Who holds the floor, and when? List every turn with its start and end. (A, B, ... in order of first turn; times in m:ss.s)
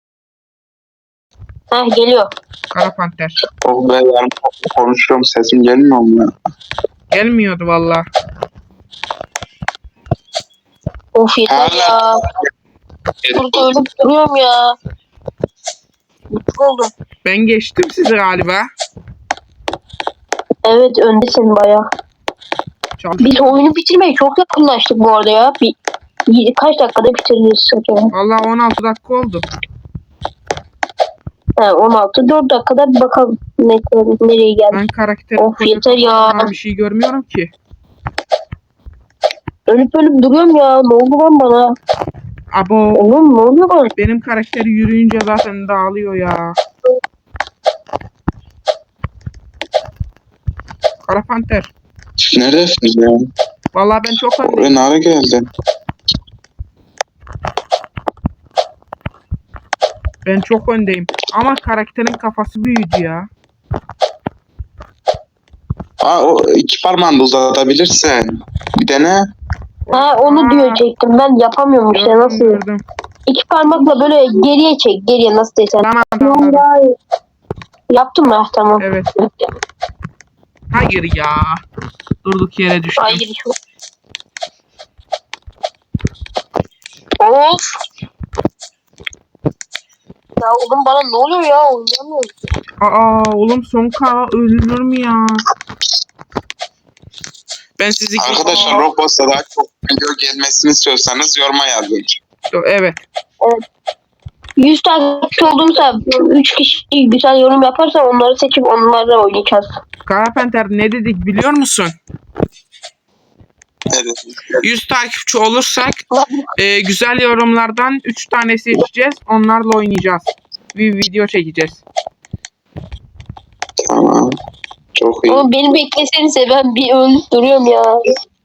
0:01.7-0:02.3 A
0:02.7-0:03.4 B
0:03.6-0:06.3 C
0:07.1-0:08.0 B
0:11.2-0:12.1 A
0:11.5-0:12.0 C
0:13.3-0:13.6 C
0:13.4-0:14.7 A
0:16.3-0:16.9 A
0:17.2-0:18.7 B
0:20.6-0:21.8 A
0:23.0-0:23.6 B
0:23.2-0:25.7 A
0:26.3-0:28.1 A
0:28.1-0:29.5 B
0:31.6-0:34.8 A
0:34.7-0:37.5 B
0:35.4-0:36.5 A
0:39.7-0:41.7 A
0:42.5-0:43.0 B
0:43.0-0:43.9 A
0:44.0-0:46.6 B
0:51.0-0:51.7 B
0:52.3-0:53.2 C
0:53.7-0:54.8 B
0:54.4-0:55.5 C
1:00.2-1:03.3 B
1:06.0-1:09.2 C
1:09.9-1:10.8 B
1:09.9-1:12.6 A
1:11.9-1:12.8 B
1:13.3-1:16.9 A
1:15.8-1:16.6 B
1:17.9-1:18.8 A
1:18.8-1:19.1 B
1:20.7-1:21.6 B
1:22.2-1:23.2 B
1:23.0-1:23.5 A
1:27.2-1:27.7 A
1:30.4-1:32.3 A
1:32.8-1:35.4 B
1:37.8-1:38.8 B
1:38.2-1:42.2 C
1:42.5-1:43.0 B
1:44.6-1:49.8 A
1:50.1-1:52.0 B
1:53.9-1:54.6 C
1:54.6-1:56.0 B
1:56.1-1:56.5 A
1:56.6-2:01.8 B
2:03.8-2:04.4 C
2:05.0-2:05.4 C
2:05.3-2:08.0 A